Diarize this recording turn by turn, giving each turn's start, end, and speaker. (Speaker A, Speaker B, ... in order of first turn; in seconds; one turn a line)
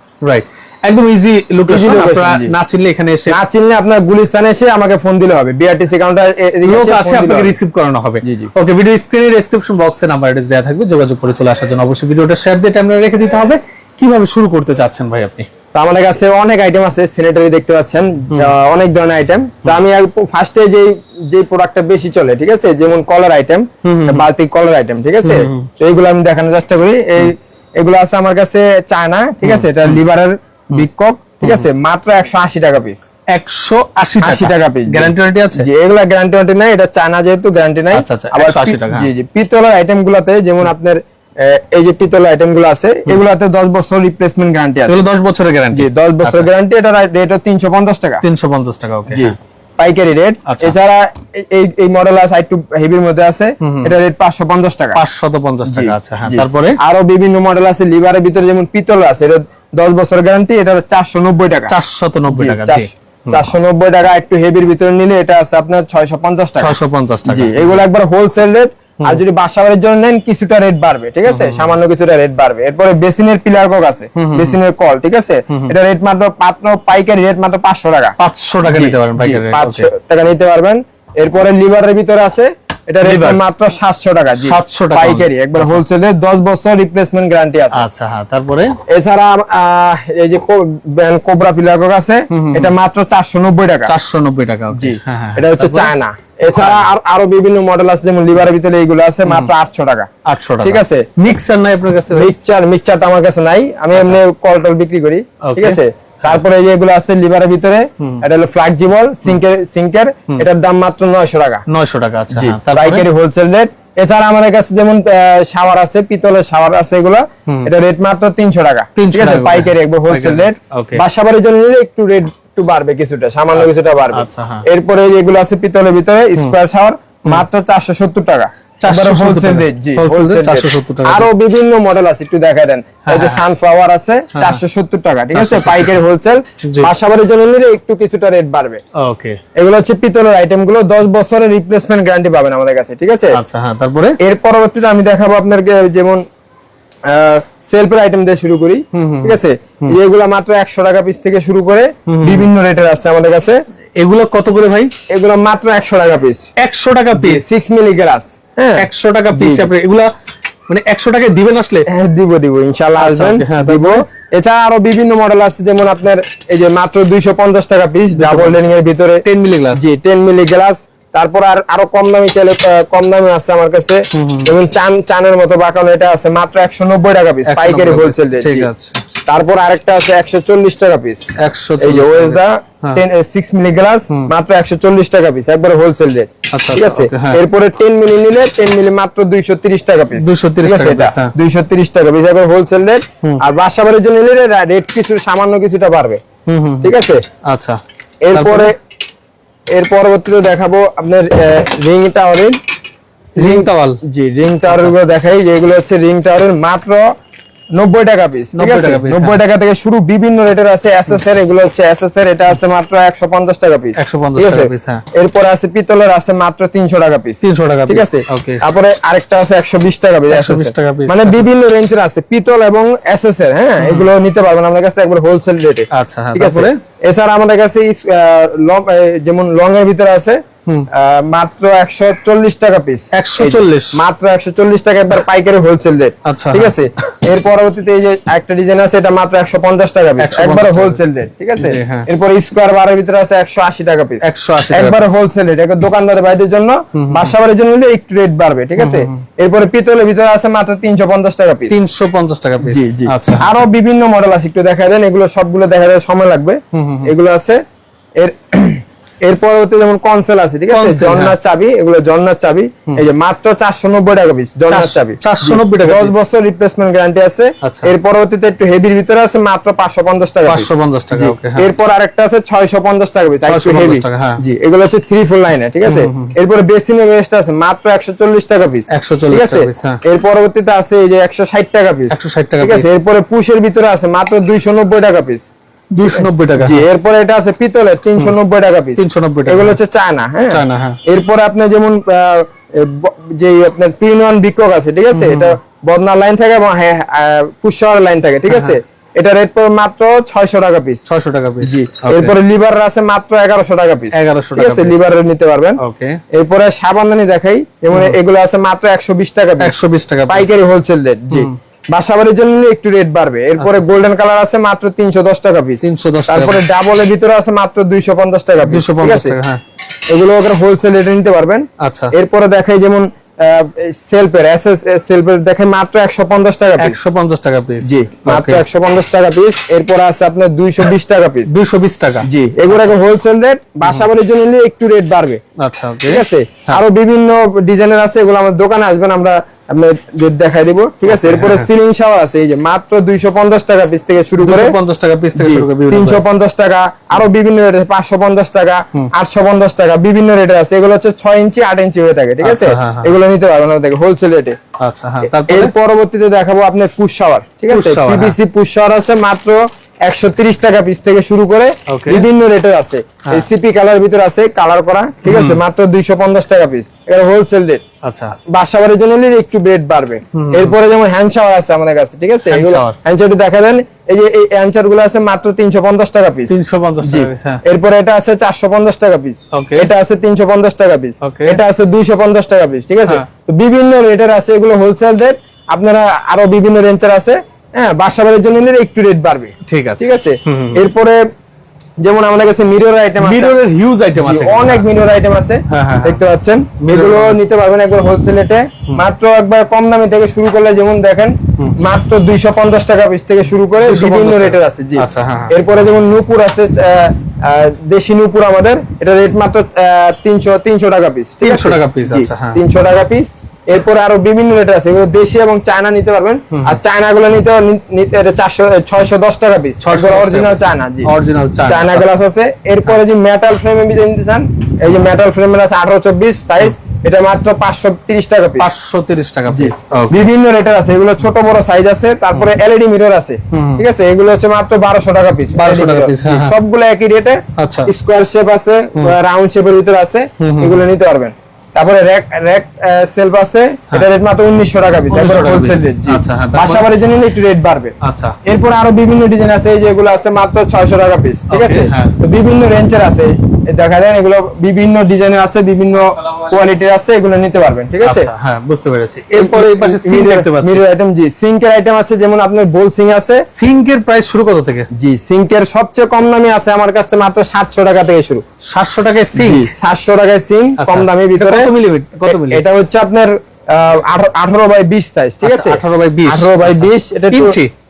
Speaker A: 0.2-3.4
Speaker B: 1.7-2.5
Speaker B: 3.3-7.5
Speaker A: 6.7-15.5
Speaker B: 8.2-8.5
Speaker B: 15.7-33.0
Speaker A: 23.8-24.2
Speaker A: 25.2-25.7
Speaker A: 29.4-30.0
Speaker A: 31.4-31.7
Speaker A: 33.3-35.7
Speaker B: 34.2-45.0
Speaker A: 37.9-39.1
Speaker A: 44.9-46.5
Speaker B: 45.7-48.2
Speaker A: 48.2-49.3
Speaker B: 49.1-55.0
Speaker A: 50.5-50.7
Speaker A: 53.6-53.9
Speaker A: 54.9-56.8
Speaker B: 55.7-61.7
Speaker A: 61.7-63.5
Speaker B: 62.3-87.8
Speaker A: 66.6-67.8
Speaker A: 71.3-71.8
Speaker A: 74.2-74.5
Speaker A: 78.2-79.9
Speaker A: 83.0-83.4
Speaker A: 84.4-85.8
Speaker A: 87.7-88.8
Speaker B: 88.9-93.9
Speaker A: 92.3-92.7
Speaker A: 93.8-95.9
Speaker B: 94.7-100.1
Speaker A: 96.5-96.9
Speaker A: 100.2-102.3
Speaker B: 100.6-101.1
Speaker B: 102.1-111.6
Speaker A: 103.9-104.2
Speaker A: 105.4-106.4
Speaker A: 111.7-113.0
Speaker B: 112.3-138.8
Speaker A: 119.0-121.0
Speaker A: 123.5-124.6
Speaker A: 128.8-131.3
Speaker A: 133.1-133.4
Speaker A: 134.3-134.6
Speaker A: 135.3-136.0
Speaker A: 136.6-136.9
Speaker A: 139.0-139.4
Speaker B: 139.6-143.4
Speaker A: 143.3-144.2
Speaker B: 144.2-146.2
Speaker B: 147.1-153.6
Speaker A: 148.9-149.9
Speaker A: 152.1-152.5
Speaker A: 154.0-154.9
Speaker B: 155.1-156.5
Speaker A: 156.6-157.6
Speaker B: 157.1-159.7
Speaker A: 158.8-160.1
Speaker A: 160.7-161.9
Speaker B: 161.9-178.7
Speaker A: 163.0-164.0
Speaker A: 168.1-168.6
Speaker A: 169.2-169.8
Speaker A: 174.1-174.5
Speaker A: 177.4-179.0
Speaker B: 179.2-196.2
Speaker A: 181.4-183.0
Speaker A: 186.5-187.4
Speaker A: 190.1-191.3
Speaker A: 196.4-197.8
Speaker B: 196.8-197.2
Speaker B: 198.2-198.7
Speaker A: 198.3-198.7
Speaker B: 199.7-202.6
Speaker A: 203.3-204.0
Speaker B: 203.4-207.0
Speaker A: 204.7-204.9
Speaker B: 207.8-230.4
Speaker A: 208.5-209.4
Speaker A: 214.0-215.0
Speaker A: 217.4-218.6
Speaker A: 220.3-221.5
Speaker A: 223.8-224.1
Speaker A: 225.9-226.8
Speaker B: 230.9-251.8
Speaker A: 233.1-234.0
Speaker A: 236.2-236.8
Speaker A: 240.2-241.0
Speaker A: 241.6-242.1
Speaker A: 244.2-245.1
Speaker A: 246.9-247.3
Speaker A: 248.8-249.2
Speaker A: 251.7-253.6
Speaker B: 252.6-257.6
Speaker A: 256.7-257.1
Speaker B: 258.2-285.5
Speaker A: 260.7-261.3
Speaker A: 264.7-266.2
Speaker A: 267.6-267.9
Speaker A: 270.4-271.7
Speaker A: 273.4-274.4
Speaker A: 275.8-276.3
Speaker A: 278.9-280.0
Speaker A: 282.1-282.9
Speaker A: 285.9-286.8
Speaker B: 286.1-301.1
Speaker A: 289.0-289.8
Speaker A: 290.5-291.0
Speaker A: 295.1-295.6
Speaker A: 298.5-298.8
Speaker A: 301.1-302.4
Speaker B: 301.6-305.8
Speaker A: 304.1-305.0
Speaker A: 305.8-306.2
Speaker B: 306.3-309.7
Speaker A: 307.9-308.2
Speaker A: 309.6-310.5
Speaker B: 310.3-319.4
Speaker A: 315.8-316.6
Speaker A: 318.6-319.6
Speaker B: 320.1-327.0
Speaker A: 321.8-322.1
Speaker A: 326.8-328.6
Speaker B: 327.8-331.5
Speaker A: 331.5-332.9
Speaker B: 332.2-335.4
Speaker A: 335.6-336.8
Speaker B: 336.1-344.7
Speaker A: 341.1-341.7
Speaker A: 344.4-346.2
Speaker B: 345.4-354.6
Speaker A: 352.4-353.1
Speaker A: 354.8-355.7
Speaker B: 355.3-367.8
Speaker A: 357.7-358.4
Speaker A: 361.9-362.2
Speaker A: 365.2-365.6
Speaker A: 368.0-368.3
Speaker B: 368.5-391.2
Speaker A: 370.3-370.8
Speaker A: 372.5-372.9
Speaker A: 376.5-377.6
Speaker A: 379.5-379.9
Speaker A: 381.2-381.6
Speaker A: 389.6-390.8
Speaker B: 392.0-393.6
Speaker A: 393.2-394.9
Speaker B: 394.1-421.1
Speaker A: 395.7-396.2
Speaker A: 396.8-397.4
Speaker A: 403.8-405.5
Speaker A: 411.4-412.6
Speaker A: 416.5-416.8
Speaker A: 419.8-422.1
Speaker B: 421.6-428.7
Speaker A: 428.6-430.2
Speaker B: 429.5-458.3
Speaker A: 433.5-433.8
Speaker A: 435.5-436.5
Speaker A: 437.6-437.9
Speaker A: 440.4-440.8
Speaker A: 445.1-446.9
Speaker A: 448.0-448.4
Speaker A: 451.5-452.1
Speaker A: 458.0-460.8
Speaker B: 459.4-463.4
Speaker A: 463.5-464.9
Speaker B: 464.9-468.4
Speaker A: 468.6-469.7
Speaker B: 469.4-471.7
Speaker A: 470.8-472.6
Speaker B: 472.3-477.6
Speaker A: 475.4-477.7